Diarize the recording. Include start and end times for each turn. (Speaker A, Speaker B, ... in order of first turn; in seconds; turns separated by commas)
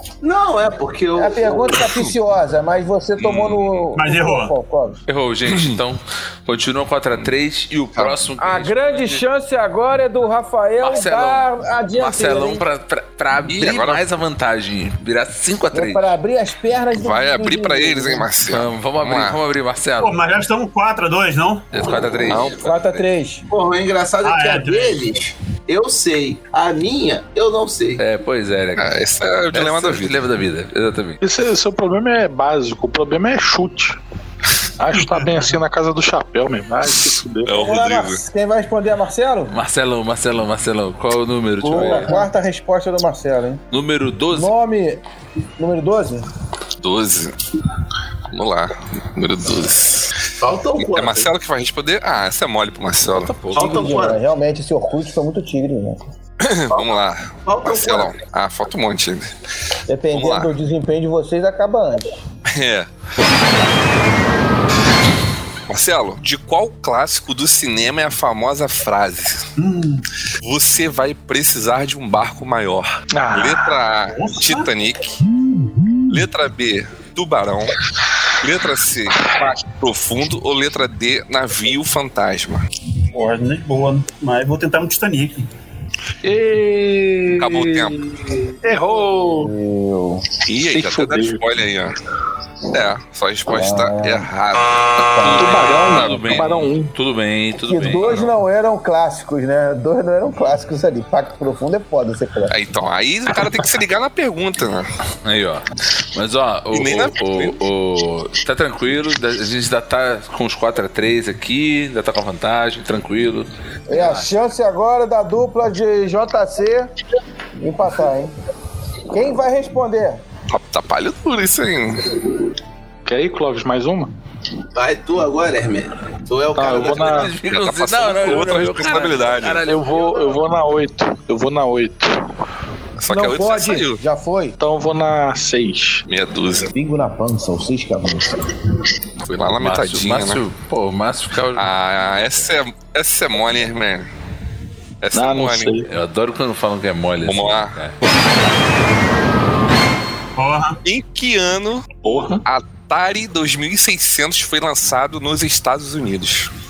Speaker A: 0.2-1.8, Speaker B: 1.1-5.0, Speaker C: 3.2-3.6, Speaker D: 4.0-4.5, Speaker E: 5.1-9.2, Speaker C: 5.5-5.8, Speaker B: 8.4-12.6, Speaker E: 10.8-16.1, Speaker C: 13.5-14.1, Speaker B: 15.7-18.3, Speaker C: 16.9-19.4, Speaker E: 18.5-20.2, Speaker D: 20.0-21.7, Speaker E: 21.7-22.9, Speaker C: 22.3-22.9, Speaker B: 22.6-23.5, Speaker A: 23.5-28.0, Speaker D: 24.2-25.0, Speaker E: 28.0-29.0, Speaker C: 28.8-30.2, Speaker E: 29.5-31.2, Speaker F: 31.2-34.0, Speaker F: 34.8-37.6, Speaker D: 34.9-35.5, Speaker C: 37.5-38.2, Speaker B: 37.5-39.6, Speaker E: 39.5-42.2, Speaker B: 41.6-43.6, Speaker F: 41.7-42.2, Speaker E: 43.7-44.5, Speaker B: 44.3-45.0, Speaker B: 45.6-46.3, Speaker C: 46.8-47.4, Speaker C: 48.3-50.1, Speaker A: 50.4-51.3, Speaker C: 50.8-53.4, Speaker E: 53.1-54.0, Speaker B: 53.5-56.1, Speaker A: 53.5-54.2, Speaker C: 56.4-59.3, Speaker A: 56.7-58.1, Speaker B: 59.9-62.2, Speaker C: 60.1-60.5, Speaker C: 62.5-62.9, Speaker C: 65.7-69.5, Speaker D: 69.6-70.0, Speaker C: 70.4-75.2, Speaker F: 73.1-73.8, Speaker D: 74.2-74.7, Speaker F: 75.4-76.2, Speaker C: 76.1-77.8, Speaker C: 78.4-82.6, Speaker D: 83.1-85.5, Speaker F: 86.2-89.5, Speaker C: 87.4-88.1, Speaker B: 89.3-90.2, Speaker C: 90.5-92.0, Speaker F: 90.6-91.4, Speaker C: 92.7-96.5, Speaker B: 93.5-94.3, Speaker B: 95.2-95.6, Speaker E: 95.2-98.3, Speaker F: 95.3-96.9, Speaker B: 97.6-102.5, Speaker C: 102.5-104.9, Speaker E: 105.2-114.3, Speaker C: 106.7-107.6, Speaker B: 113.9-116.9, Speaker B: 117.6-118.3, Speaker B: 119.1-120.2, Speaker C: 120.5-122.2, Speaker F: 123.1-124.1, Speaker A: 124.7-127.3, Speaker F: 126.5-127.3, Speaker E: 126.7-130.2, Speaker C: 127.4-129.6, Speaker F: 129.7-132.2, Speaker C: 133.0-134.0, Speaker B: 133.1-134.6, Speaker F: 134.6-136.0, Speaker C: 136.1-136.7, Speaker B: 136.7-138.4, Speaker C: 139.3-140.4, Speaker E: 139.6-141.7, Speaker C: 141.6-144.1, Speaker C: 145.0-145.8, Speaker F: 145.1-145.9, Speaker E: 145.9-147.9, Speaker C: 147.2-147.8, Speaker D: 150.4-150.8, Speaker C: 150.8-156.5, Speaker F: 152.0-152.4